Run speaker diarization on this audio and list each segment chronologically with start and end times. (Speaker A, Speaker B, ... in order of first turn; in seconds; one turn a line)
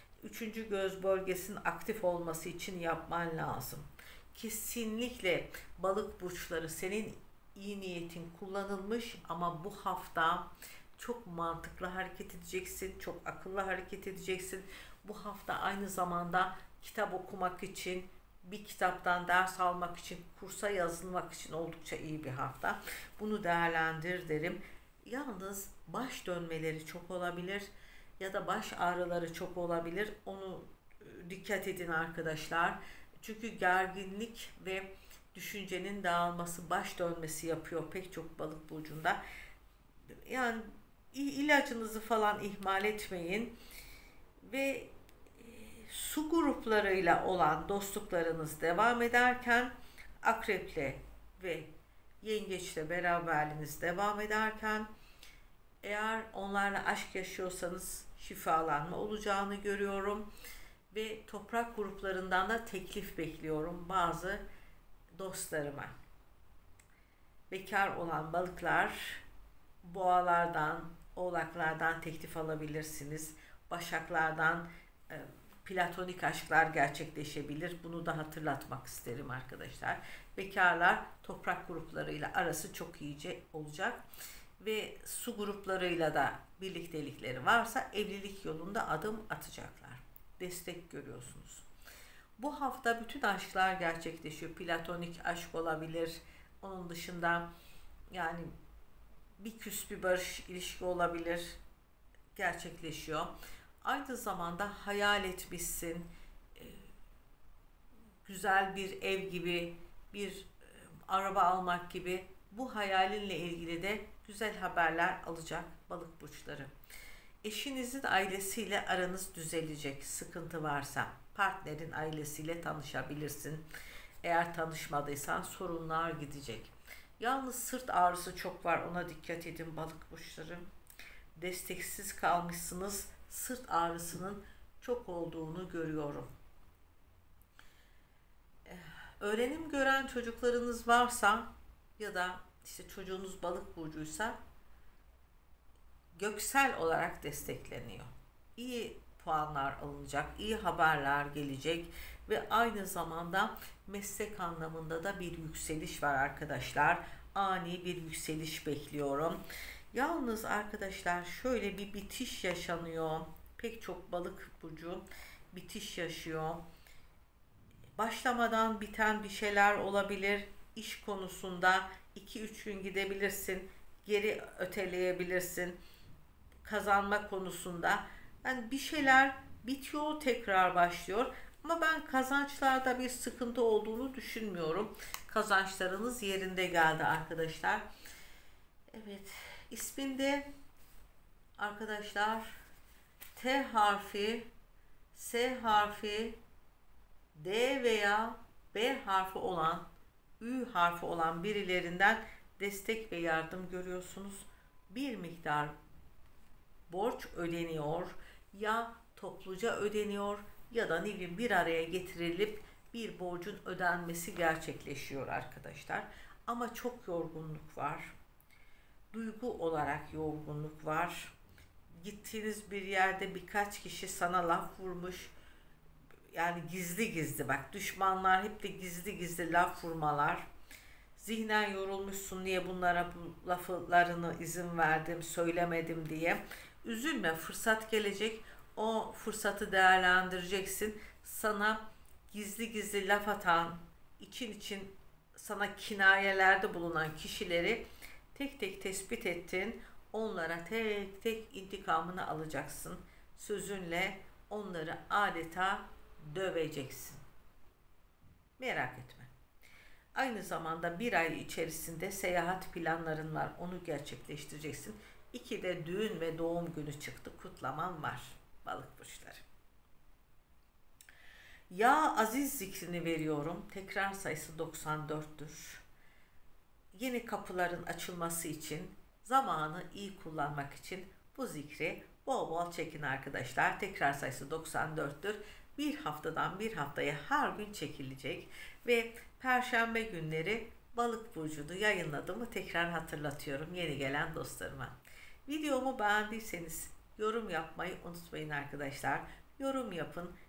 Speaker A: 0.2-27.7
Speaker A: 28.2-39.2
Speaker A: 40.1-43.5
Speaker A: 44.4-51.7
Speaker A: 52.2-54.9
Speaker A: 55.8-60.3
Speaker A: 60.9-64.4
Speaker A: 65.1-65.9
Speaker A: 67.5-69.2
Speaker A: 69.8-84.0
Speaker A: 84.6-91.7
Speaker A: 92.4-97.5
Speaker A: 98.1-98.5
Speaker A: 99.4-101.6
Speaker A: 102.3-106.9
Speaker A: 108.2-116.7
Speaker A: 117.4-123.6
Speaker A: 124.2-130.7
Speaker A: 131.3-136.3
Speaker A: 138.7-144.4
Speaker A: 146.2-159.4
Speaker A: 159.9-166.6
Speaker A: 168.0-175.8
Speaker A: 176.6-187.9
Speaker A: 188.9-190.5
Speaker A: 191.6-192.6
Speaker A: 193.3-194.5
Speaker A: 195.1-196.4
Speaker A: 197.3-199.8
Speaker A: 200.4-205.7
Speaker A: 206.9-218.1
Speaker A: 219.1-221.3
Speaker A: 221.9-225.3
Speaker A: 226.3-230.5
Speaker A: 231.2-257.2
Speaker A: 258.6-259.3
Speaker A: 260.1-269.4
Speaker A: 271.7-275.8
Speaker A: 276.9-294.9
Speaker A: 295.4-300.3